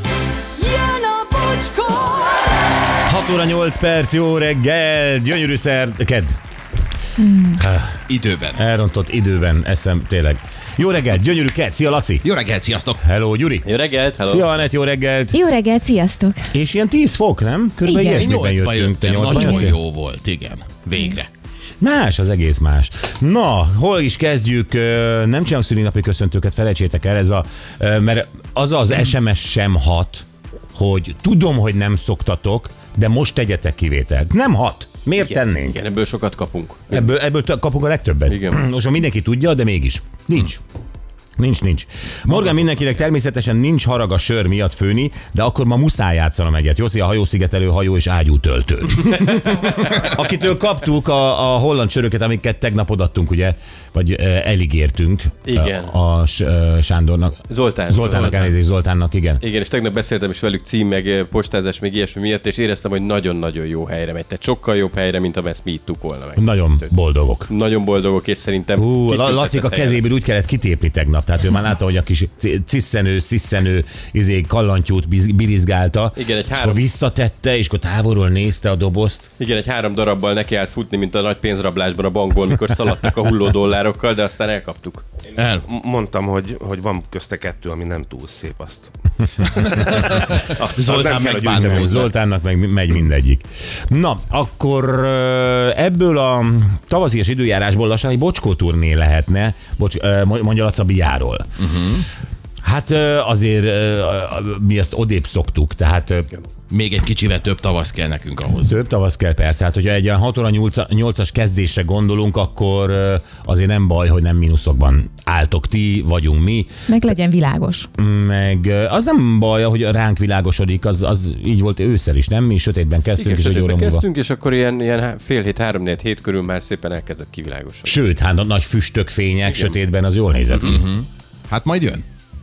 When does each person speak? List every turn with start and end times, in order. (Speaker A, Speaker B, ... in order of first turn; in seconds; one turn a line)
Speaker A: 0.6-2.8
Speaker B: 3.0-6.3
Speaker C: 7.2-7.6
Speaker B: 7.6-8.0
Speaker D: 8.1-8.6
Speaker B: 8.6-12.2
Speaker D: 12.2-13.0
Speaker B: 13.0-13.7
Speaker E: 13.6-14.7
Speaker B: 14.2-15.4
Speaker C: 15.3-16.5
Speaker B: 16.5-19.8
Speaker C: 17.8-18.3
Speaker D: 18.1-21.3
Speaker C: 19.3-19.6
Speaker B: 21.8-35.8
Speaker E: 35.6-37.1
Speaker B: 36.9-40.6
Speaker E: 38.3-38.6
Speaker B: 41.4-59.4
Speaker E: 55.5-55.9
Speaker E: 57.5-58.5
Speaker E: 59.4-66.9
Speaker B: 66.3-67.5
Speaker E: 67.5-70.0
Speaker B: 68.8-79.3
Speaker E: 76.2-76.8
Speaker E: 79.4-85.0
Speaker D: 85.3-85.6
Speaker F: 85.7-88.9
Speaker B: 89.4-90.1
Speaker D: 90.2-92.1
Speaker B: 90.7-101.5
Speaker D: 101.6-102.0
Speaker B: 102.6-106.3
Speaker D: 106.7-108.7
Speaker B: 108.6-116.7
Speaker C: 116.9-117.9
Speaker B: 118.0-124.0
Speaker E: 123.2-128.0
Speaker B: 127.8-130.8
Speaker E: 129.5-129.8
Speaker D: 130.7-132.0